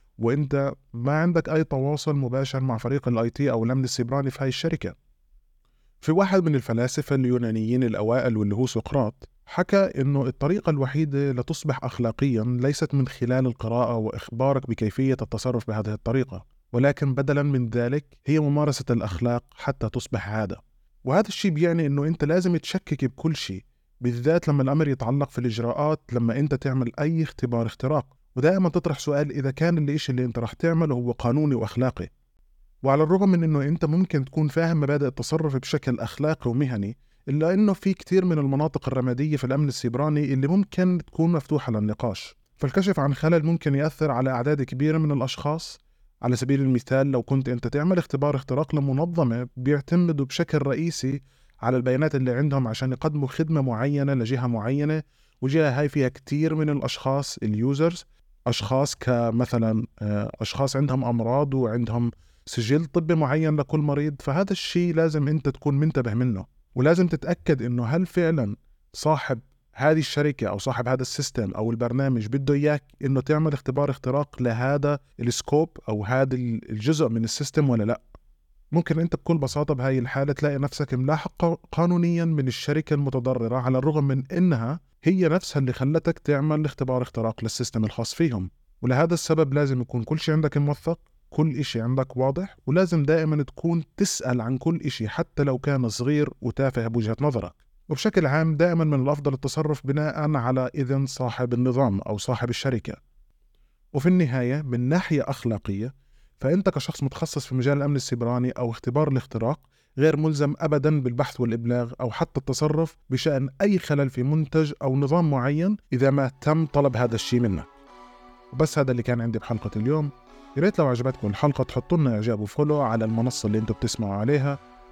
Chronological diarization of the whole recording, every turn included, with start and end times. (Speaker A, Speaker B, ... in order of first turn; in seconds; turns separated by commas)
Speaker A: 0.2-5.0, Speaker A: 6.0-32.1, Speaker A: 32.8-78.0, Speaker A: 78.7-103.0, Speaker A: 103.9-117.7, Speaker A: 118.5-124.6